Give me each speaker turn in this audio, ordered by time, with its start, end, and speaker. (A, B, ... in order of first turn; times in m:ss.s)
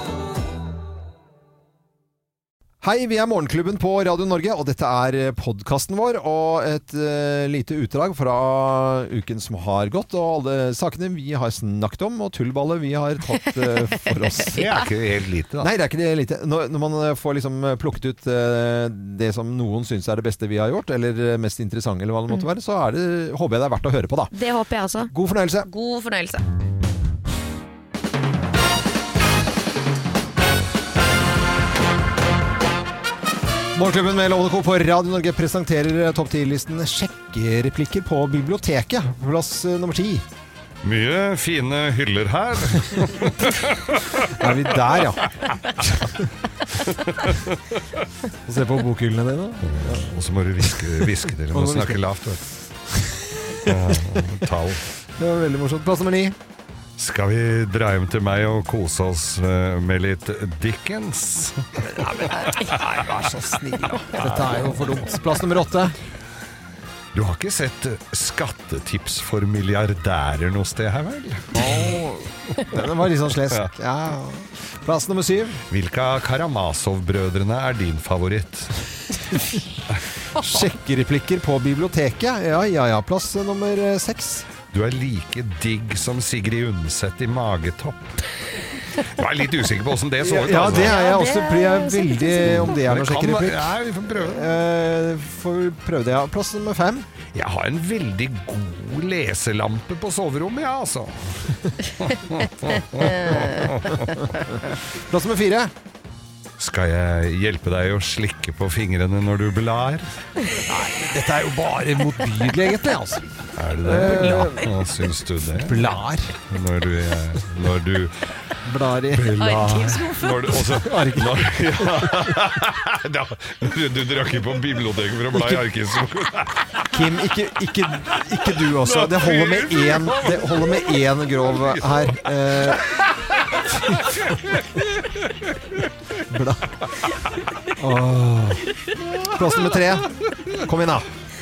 0:02.8-0:14.8 A
0:14.5-0:15.7 B
0:15.6-0:24.3 A
0:24.3-0:25.1 C
0:25.1-0:25.7 A
0:25.6-0:26.4 C
0:33.7-0:40.2 A
0:40.8-0:44.5 B
0:44.3-0:46.3 A
0:46.8-0:47.8 B
0:48.4-0:52.0 A
0:49.6-0:52.4 B
0:52.9-0:54.3 A
0:53.6-0:54.8 B
0:55.2-0:56.4 A
0:57.0-1:02.5 B
1:01.9-1:06.0 A
1:07.1-1:11.7 B
1:11.5-1:15.6 A
1:15.7-1:18.8 B
1:19.3-1:19.6 A
1:20.3-1:24.5 A
1:24.7-1:28.3 B
1:29.0-1:31.0 B
1:30.2-1:37.1 A
1:30.9-1:32.6 C
1:32.4-1:34.5 B
1:37.3-1:44.1 B
1:44.4-1:45.7 A
1:46.6-1:50.1 B
1:50.5-1:54.7 A
1:53.6-1:55.9 B
1:55.6-1:56.4 A
1:56.5-1:58.3 B
1:58.6-2:02.5 A
1:59.1-2:06.9 B
1:59.4-2:00.5 C
2:05.3-2:05.7 A
2:06.9-2:12.9 A
2:08.6-2:10.9 B
2:12.9-2:15.9 B
2:13.8-2:14.1 A
2:16.3-2:16.8 A
2:17.7-2:21.1 A
2:19.0-2:20.5 B